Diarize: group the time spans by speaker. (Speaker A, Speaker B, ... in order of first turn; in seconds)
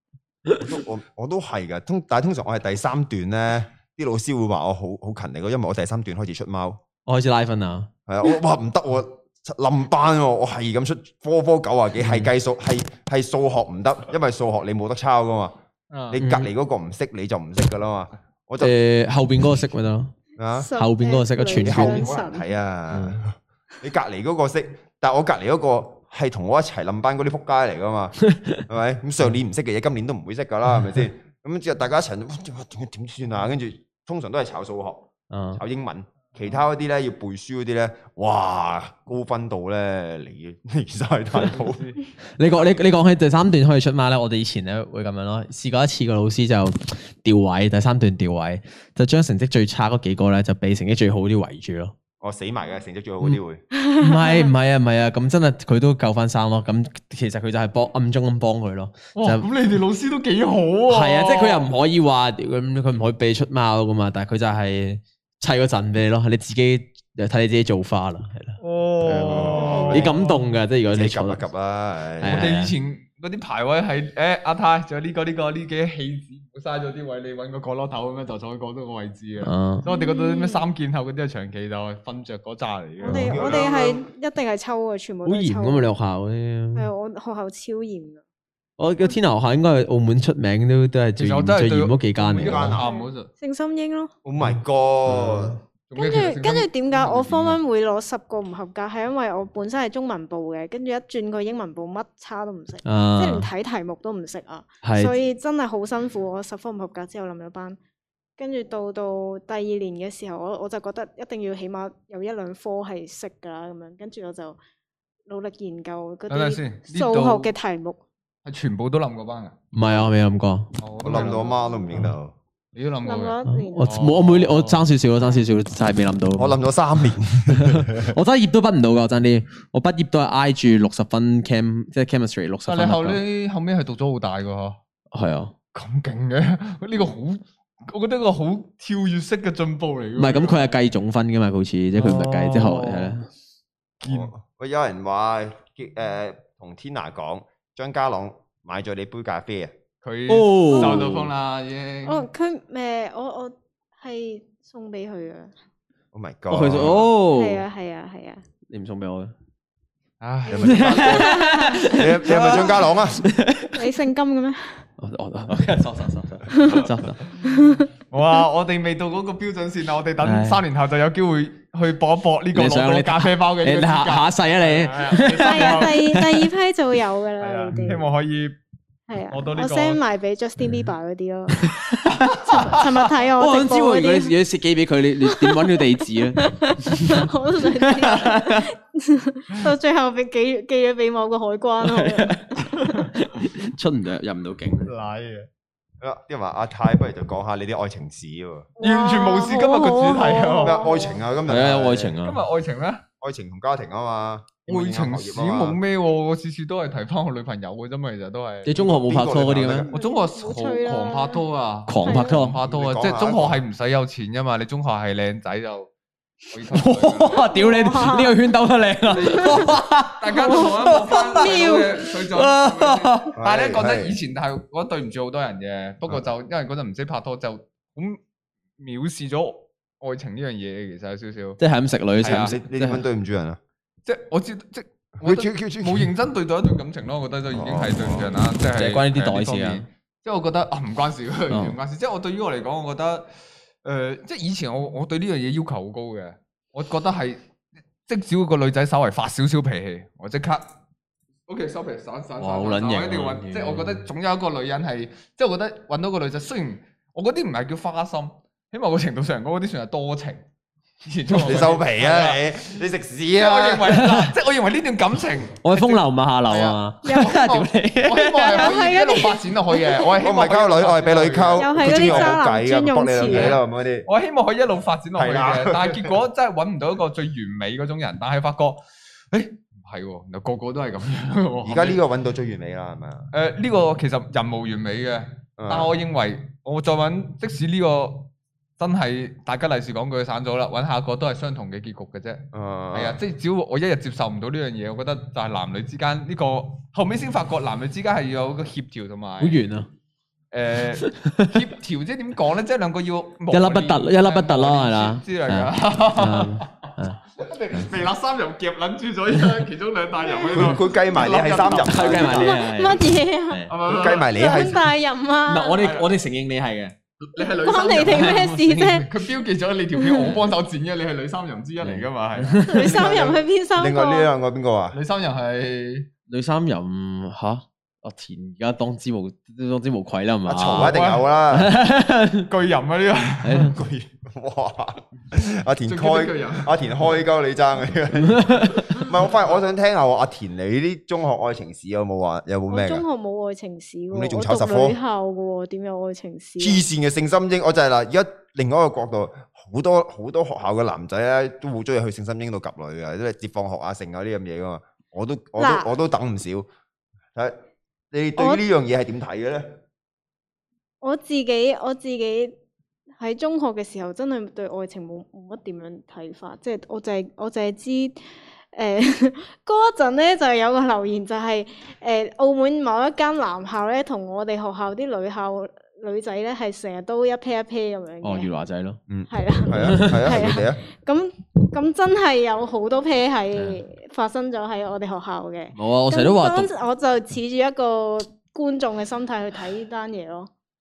Speaker A: 0.6-6.8, 8.1-15.6, 16.1-18.7, 20.4-20.7, 21.6-41.9, 52.2-53.6, 69.1-70.1, 70.9-72.5, 83.1-84.0, 92.2-92.8, 94.2-95.6, 121.0-122.3, 126.3-128.2, 144.0-149.7, 156.1-157.1, 160.5-163.2, 196.0-198.7, 200.6-202.2, 203.2-205.8, 208.8-209.9, 212.6-213.6, 223.3-224.2, 232.2-233.6, 235.2-236.1, 237.5-238.3, 261.3-264.0, 270.2-274.1, 275.1-276.1, 281.6-283.3, 285.6-285.9, 292.5-293.2, 310.5-312.5, 313.9-314.9, 322.8-325.0, 330.4-331.7, 333.7-343.1, 344.1-345.0, 346.6-356.7, 358.1-359.8, 379.1-380.8
Speaker B: 7.1-7.9, 12.0-12.3, 16.2-16.5, 18.6-20.1, 20.8-22.1, 22.9-23.2, 28.3-28.6, 35.3-35.6, 42.4-52.0, 54.0-59.5, 60.9-71.4, 72.2-72.7, 79.4-79.9, 83.1-83.3, 85.2-86.9, 88.8-92.8, 95.1-95.6, 102.8-103.5, 104.8-105.1, 119.7-120.7, 123.5-126.6, 127.5-133.2, 135.1-135.5, 140.2-143.3, 150.3-151.3, 156.5-157.7, 158.7-159.3, 160.6-163.8, 165.0-167.2, 170.2-170.6, 172.5-176.5, 177.7-178.0, 181.6-182.4, 183.4-188.7, 191.8-194.9, 201.5-202.4, 208.7-209.9, 211.9-212.6, 216.7-223.3, 231.6-233.1, 238.8-239.8, 241.5-241.8, 252.4-254.1, 263.9-264.3, 265.6-268.8, 299.4-299.9, 301.0-301.6, 303.5-307.2, 311.6-313.7, 315.5-316.9, 318.0-318.9, 321.8-323.0, 326.3-331.0, 331.5-332.5, 333.4-333.8, 338.2-338.9, 378.2-379.0, 379.7-380.5, 383.5-383.8, 385.8-386.7
Speaker C: 15.9-16.2, 41.5-42.0, 59.1-61.7, 68.6-70.4, 72.3-83.9, 91.2-93.3, 95.9-97.6, 116.3-117.5, 118.5-120.1, 120.8-121.5, 122.8-124.8, 132.7-134.8, 135.7-140.6, 142.0-143.2, 144.0-144.3, 150.0-152.2, 160.2-160.9, 168.1-176.1, 177.4-178.6, 179.3-180.0, 182.2-183.1, 192.8-193.1, 194.8-195.5, 198.8-200.9, 202.2-203.0, 204.7-208.9, 209.9-215.9, 216.5-217.6, 219.1-228.2, 228.8-231.6, 232.2-232.6, 234.1-243.3, 243.8-247.4, 248.1-250.7, 251.5-260.4, 261.0-272.4, 273.3-282.0, 283.3-299.6, 300.5-312.5, 313.7-314.4, 315.8-316.1, 317.2-322.6, 324.9-326.1, 330.8-331.2, 332.5-333.8, 335.8-336.8
Speaker D: 20.6-22.5, 53.8-54.5, 79.9-80.6, 83.0-85.9, 86.8-88.2, 92.8-94.1, 96.0-107.8, 108.4-114.6, 115.3-118.0, 121.1-121.7, 123.0-124.1, 150.7-151.1, 152.1-155.5, 157.3-158.4, 161.0-162.8, 163.7-164.9, 166.6-166.8, 167.4-167.9, 175.2-178.1, 179.1-181.7, 182.4-184.4, 185.2-192.4, 198.8-201.2, 209.9-211.4, 212.0-212.4, 217.5-218.4, 220.3-222.1, 267.0-267.4, 268.4-270.1, 271.6-273.6, 312.1-315.9, 317.4-319.1, 319.9-320.4, 322.6-324.3, 342.7-346.8, 355.6-355.9, 358.4-358.6, 361.0-362.6, 363.2-368.2, 368.7-378.5, 379.3-390.5